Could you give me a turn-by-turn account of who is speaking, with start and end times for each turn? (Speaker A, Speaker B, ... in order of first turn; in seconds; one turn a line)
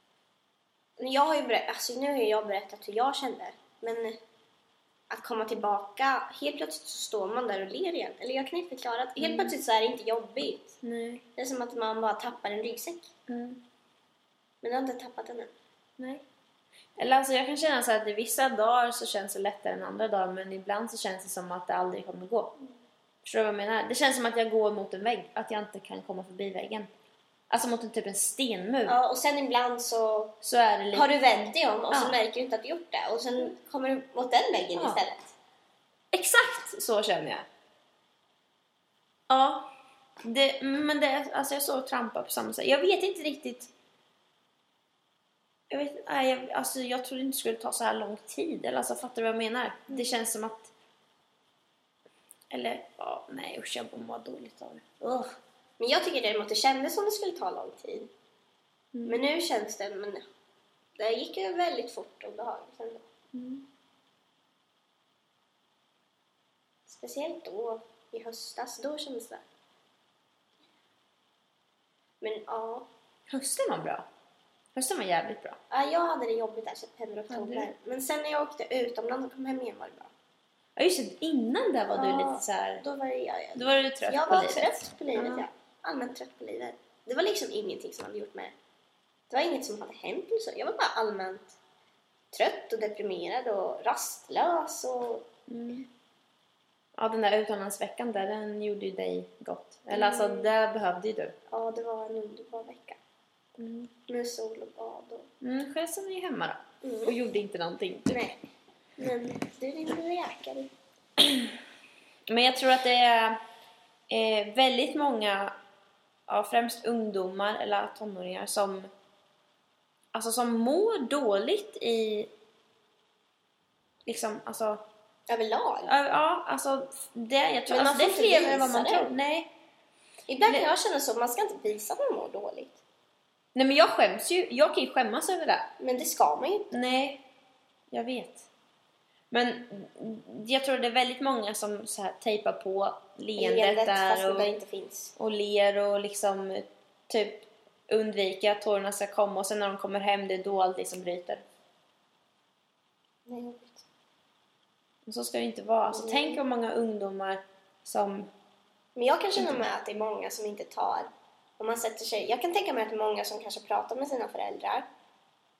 Speaker A: 1.0-4.2
Speaker A: 5.1-10.7
Speaker B: 9.2-9.6
Speaker B: 10.8-11.2
Speaker A: 11.3-13.1
Speaker B: 13.3-13.6
Speaker A: 14.6-15.5
Speaker B: 16.0-16.2
Speaker B: 17.0-22.5
Speaker B: 23.2-26.9
Speaker B: 27.5-29.0
Speaker A: 28.9-30.3
Speaker B: 30.4-31.1
Speaker A: 30.9-35.3
Speaker B: 31.9-32.2
Speaker B: 34.8-35.0
Speaker B: 36.1-37.5
Speaker B: 39.3-39.7
Speaker B: 40.2-43.7
Speaker B: 45.7-50.7
Speaker B: 52.5-55.3
Speaker A: 55.8-58.1
Speaker B: 58.9-59.2
Speaker A: 59.0-60.2
Speaker A: 61.0-63.0
Speaker B: 63.3-63.7
Speaker A: 66.9-69.4
Speaker A: 72.2-72.9
Speaker B: 73.3-74.0
Speaker B: 74.7-75.6
Speaker A: 75.7-80.1
Speaker B: 77.3-77.7
Speaker B: 80.8-82.8
Speaker A: 81.9-88.5
Speaker B: 83.5-85.5
Speaker A: 89.3-91.6
Speaker A: 92.3-95.2
Speaker B: 95.5-95.9
Speaker B: 97.0-101.3
Speaker A: 99.9-100.5
Speaker A: 101.5-103.0
Speaker B: 103.6-103.9
Speaker A: 104.1-105.3
Speaker B: 105.4-108.2
Speaker A: 106.8-107.2
Speaker A: 108.1-108.4
Speaker A: 109.0-110.7
Speaker B: 111.2-111.5
Speaker B: 112.3-113.4
Speaker B: 114.1-115.5
Speaker B: 116.3-118.9
Speaker B: 120.1-122.3
Speaker B: 124.0-124.8
Speaker A: 125.3-125.9
Speaker B: 125.8-129.5
Speaker A: 127.7-129.1
Speaker A: 130.3-132.8
Speaker B: 133.5-135.7
Speaker A: 135.8-136.7
Speaker B: 136.7-137.2
Speaker B: 137.9-138.5
Speaker B: 139.3-144.5
Speaker A: 143.4-145.1
Speaker B: 145.2-151.4
Speaker A: 153.3-153.8
Speaker B: 155.1-158.3
Speaker A: 155.9-156.4
Speaker A: 158.9-164.9
Speaker B: 159.4-159.6